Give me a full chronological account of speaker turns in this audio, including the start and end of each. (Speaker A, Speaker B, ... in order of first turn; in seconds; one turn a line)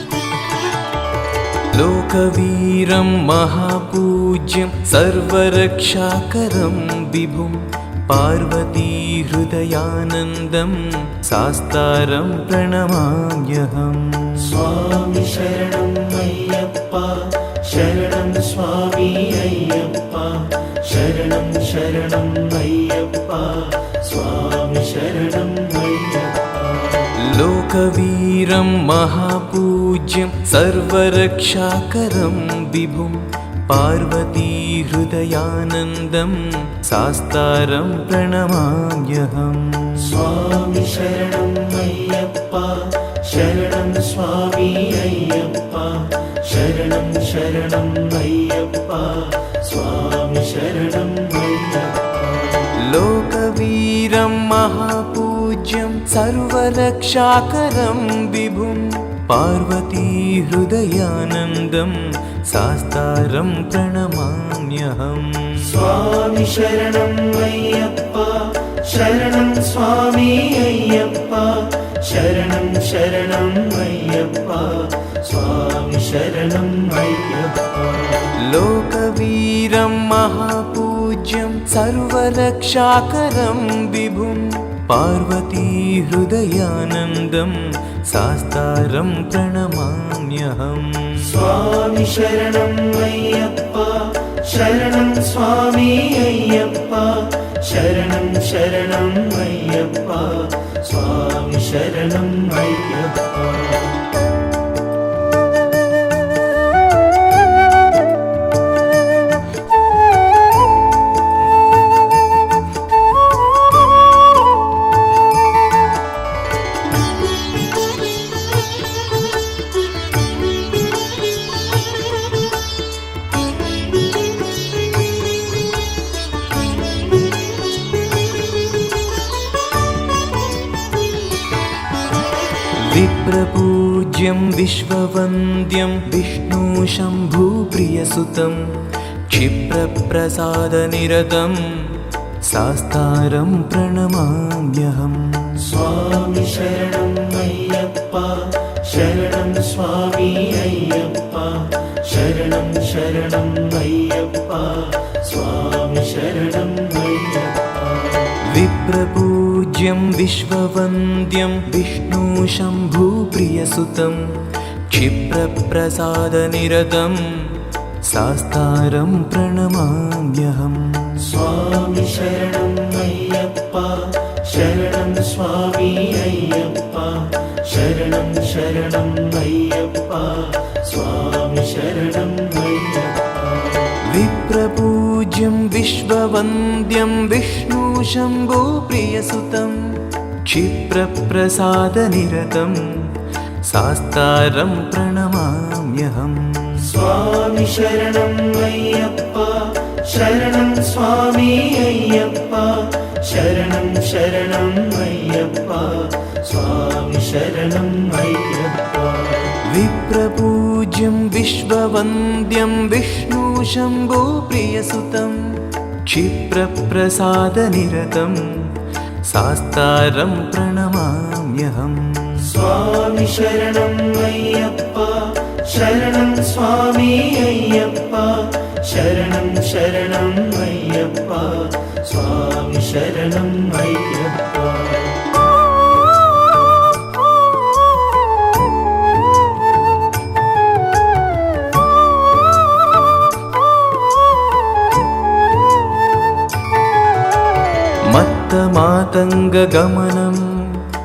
Speaker A: 1.7-14.6
Speaker B: 14.5-27.0
Speaker A: 27.3-40.2
Speaker B: 40.1-52.6
Speaker A: 52.9-62.0
Speaker A: 62.5-65.8
Speaker B: 65.7-78.2
Speaker A: 78.5-87.5
Speaker A: 88.1-91.4
Speaker B: 91.3-103.9
Speaker A: 132.8-138.6
Speaker A: 139.3-141.6
Speaker A: 142.5-145.6
Speaker B: 145.6-158.3
Speaker A: 158.5-164.2
Speaker A: 164.9-167.2
Speaker A: 168.1-171.2
Speaker B: 171.2-183.9
Speaker A: 184.1-189.8
Speaker A: 190.5-192.8
Speaker A: 193.7-196.9
Speaker B: 196.9-209.5
Speaker A: 209.7-215.4
Speaker A: 216.1-218.4
Speaker A: 219.3-222.5
Speaker B: 222.5-235.2
Speaker A: 248.1-250.4